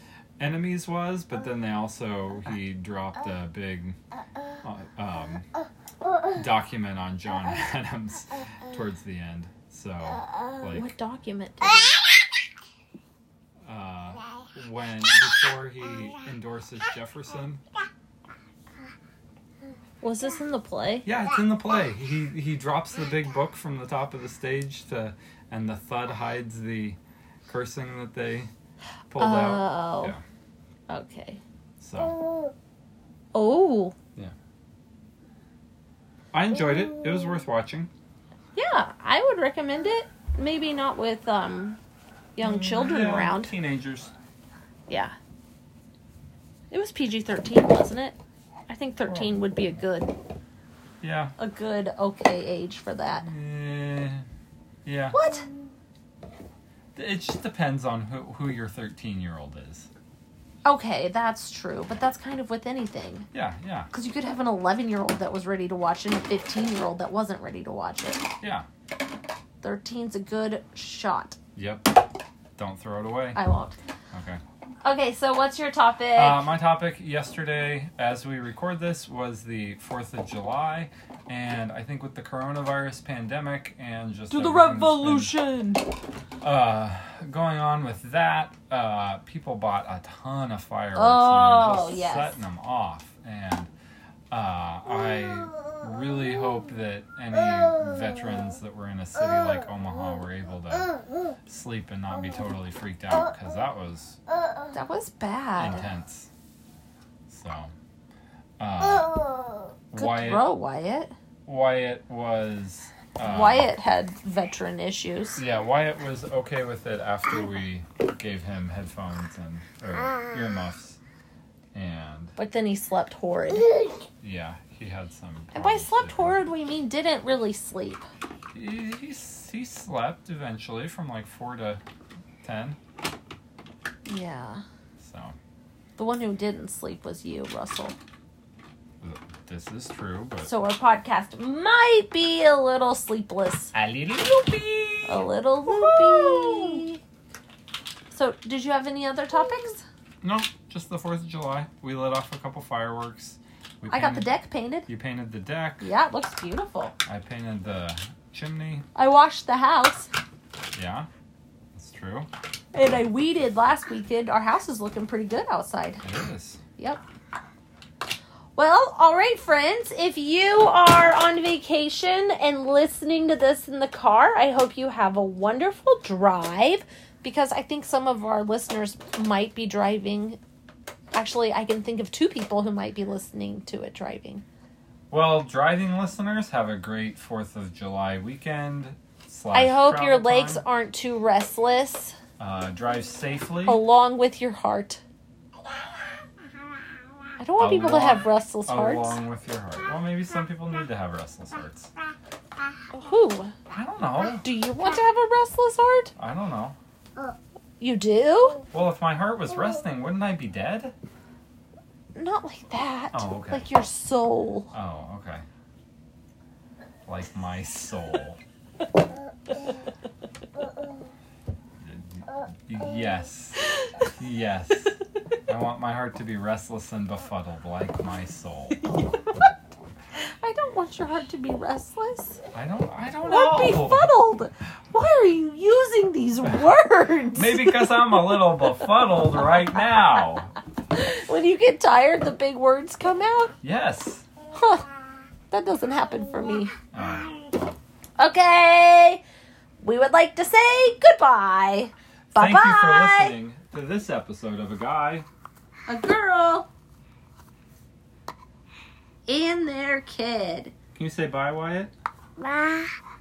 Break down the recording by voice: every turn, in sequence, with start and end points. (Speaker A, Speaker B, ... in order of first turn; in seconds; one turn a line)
Speaker A: 0.4-4.0
Speaker A: 4.6-5.5
Speaker A: 6.3-10.9
Speaker B: 10.7-12.0
Speaker A: 13.6-17.6
Speaker B: 20.0-21.1
Speaker A: 21.0-28.5
Speaker A: 29.1-30.2
Speaker B: 29.2-30.1
Speaker B: 30.9-31.4
Speaker A: 31.8-32.2
Speaker B: 33.3-33.9
Speaker A: 36.3-37.9
Speaker B: 38.5-41.8
Speaker B: 42.4-43.5
Speaker A: 42.4-44.1
Speaker B: 44.9-45.1
Speaker B: 46.7-48.1
Speaker B: 48.7-50.1
Speaker A: 49.0-49.8
Speaker A: 51.0-51.3
Speaker B: 51.4-53.2
Speaker A: 53.2-54.2
Speaker A: 54.8-55.2
Speaker B: 55.1-55.5
Speaker A: 56.9-59.9
Speaker B: 60.6-63.3
Speaker A: 63.3-63.9
Speaker B: 63.9-68.2
Speaker A: 68.4-68.7
Speaker B: 69.6-71.4
Speaker A: 71.5-72.0
Speaker A: 72.6-73.4
Speaker B: 73.3-73.7
Speaker A: 74.1-74.4
Speaker B: 74.8-76.5
Speaker A: 76.1-85.3
Speaker B: 84.3-85.8
Speaker A: 86.4-93.7
Speaker B: 91.0-92.4
Speaker A: 94.3-100.9
Speaker A: 101.5-104.2
Speaker B: 104.7-105.8
Speaker A: 105.6-106.3
Speaker A: 107.3-107.7
Speaker A: 108.6-109.2
Speaker A: 109.9-110.5
Speaker B: 110.0-111.1
Speaker A: 111.5-113.7
Speaker B: 113.2-115.4
Speaker A: 115.3-121.0
Speaker A: 121.7-122.3
Speaker B: 122.4-123.8
Speaker A: 124.2-126.5
Speaker B: 125.5-128.0
Speaker A: 128.5-131.8
Speaker A: 132.4-132.8
Speaker B: 134.1-134.6
Speaker A: 135.0-135.3
Speaker B: 136.0-137.9
Speaker A: 139.0-140.5
Speaker B: 140.4-143.7
Speaker A: 143.7-146.8
Speaker B: 145.0-147.0
Speaker B: 148.1-149.8
Speaker A: 150.2-154.3
Speaker B: 153.9-154.8
Speaker A: 154.9-155.9
Speaker B: 155.8-156.9
Speaker A: 157.0-158.9
Speaker B: 158.9-160.1
Speaker A: 160.7-161.1
Speaker A: 161.7-162.3
Speaker B: 162.7-166.0
Speaker A: 166.0-166.6
Speaker B: 168.6-180.4
Speaker B: 181.1-184.4
Speaker A: 185.1-190.6
Speaker B: 189.5-192.2
Speaker A: 192.4-193.8
Speaker B: 193.7-195.0
Speaker B: 197.4-199.2
Speaker A: 197.6-201.9
Speaker B: 202.9-203.5
Speaker A: 203.7-204.4
Speaker B: 204.4-206.1
Speaker A: 206.2-206.8
Speaker B: 207.8-208.6
Speaker A: 208.7-210.9
Speaker B: 212.1-214.7
Speaker A: 213.1-213.7
Speaker A: 214.7-215.4
Speaker A: 217.1-218.4
Speaker A: 221.8-224.9
Speaker B: 223.8-224.1
Speaker A: 225.5-228.8
Speaker B: 228.8-229.5
Speaker B: 230.4-232.4
Speaker A: 232.5-234.1
Speaker B: 233.2-238.3
Speaker A: 237.3-240.5
Speaker B: 240.9-243.5
Speaker A: 243.6-244.2
Speaker B: 244.5-244.9
Speaker B: 245.5-246.7
Speaker A: 246.9-247.7
Speaker B: 248.2-249.2
Speaker B: 249.8-253.3
Speaker A: 252.3-255.3
Speaker B: 255.9-256.7
Speaker B: 259.3-260.7
Speaker A: 260.9-261.9
Speaker B: 262.4-262.8